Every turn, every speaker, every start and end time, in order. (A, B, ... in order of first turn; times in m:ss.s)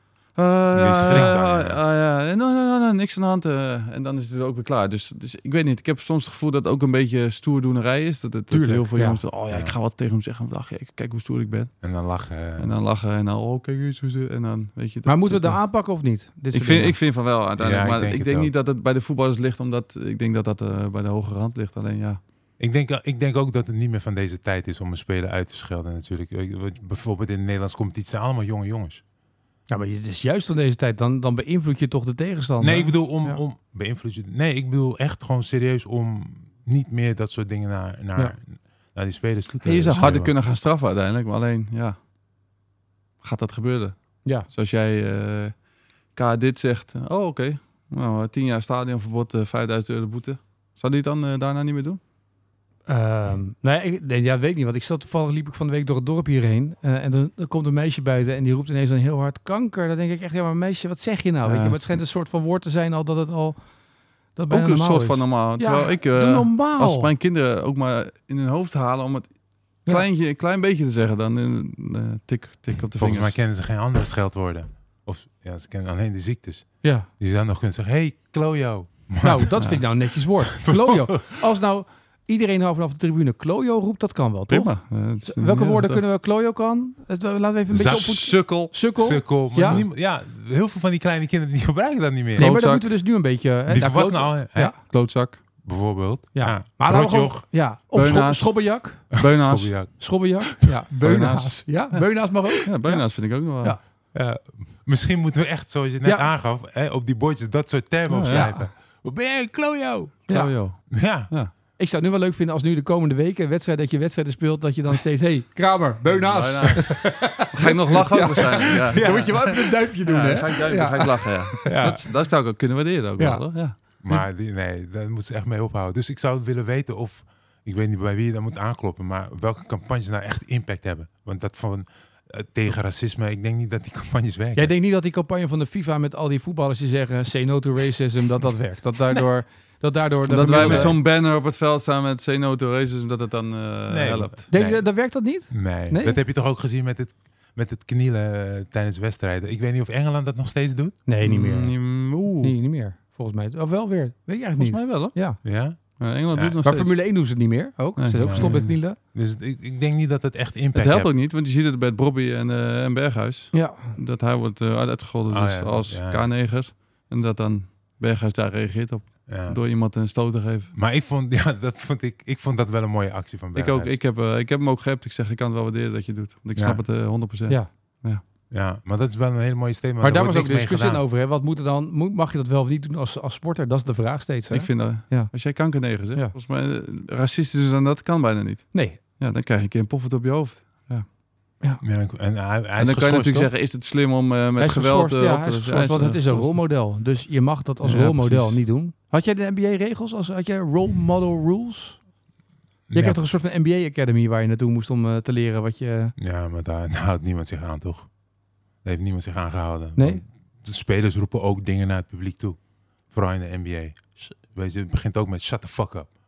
0:00.4-0:11.8 A
0:00.7-0:01.8 B
0:08.5-0:09.2 C
0:09.5-0:09.8 B
0:11.8-0:12.7 B
0:12.6-0:15.6 A
0:15.1-0:17.0 C
0:16.5-0:22.2 A
0:17.6-0:18.5 B
0:22.6-0:29.0 B
0:29.7-0:33.4 C
0:32.6-0:40.3 B
0:39.6-0:42.0 A
0:43.2-0:45.6 A
0:46.2-0:52.0 A
0:52.9-1:03.6 C
1:01.4-1:01.8 A
1:04.4-1:07.1 C
1:04.5-1:09.3 A
1:09.8-1:13.4 A
1:13.0-1:19.6 B
1:16.8-1:17.1 C
1:19.2-1:29.8 C
1:20.5-1:21.4 B
1:24.5-1:26.0 A
1:27.7-1:28.2 B
1:27.7-1:28.8 A
1:29.0-1:32.5 B
1:29.5-1:29.8 A
1:32.4-1:34.8 C
1:32.4-1:32.8 A
1:33.7-1:34.7 B
1:34.7-1:35.4 A
1:35.6-1:37.4 B
1:36.4-1:39.2 C
1:37.9-1:39.7 A
1:39.1-1:40.0 B
1:40.0-1:43.8 C
1:41.0-1:43.8 A
1:44.1-1:50.2 B
1:48.1-1:48.5 A
1:48.3-1:48.7 C
1:50.3-1:50.6 C
1:50.3-1:51.5 A
1:50.9-1:51.3 B
1:51.8-2:01.8 C
1:56.1-2:04.2 A
1:57.0-1:57.4 B
1:58.4-1:59.7 B
2:01.6-2:02.0 B
2:03.2-2:03.4 C
2:04.0-2:14.7 B
2:14.6-2:21.0 C
2:20.3-2:24.5 A
2:20.5-2:21.0 B
2:23.9-2:24.9 B
2:24.5-2:26.2 C
2:25.5-2:31.0 B
2:31.1-2:35.4 C
2:31.2-2:32.6 A
2:34.6-2:35.2 A
2:35.4-2:35.8 B
2:36.0-2:37.0 A
2:36.3-2:36.6 B
2:36.6-2:39.0 C
2:38.0-2:38.6 A
2:38.2-2:41.1 B
2:40.7-2:50.7 A
2:43.5-2:44.0 C
2:45.3-2:46.3 B
2:49.3-2:49.6 B
2:50.8-2:54.0 B
2:53.6-2:58.2 A
2:56.6-2:56.8 B
2:58.5-3:01.0 B
3:00.0-3:05.3 C
3:04.5-3:11.1 A
3:08.7-3:09.0 C
3:11.8-3:13.5 B
3:12.8-3:16.6 A
3:14.6-3:22.0 C
3:17.8-3:18.6 A
3:22.9-3:23.2 B
3:22.9-3:26.1 C
3:26.2-3:28.1 B
3:28.8-3:32.6 B
3:30.0-3:30.2 C
3:33.1-3:36.1 B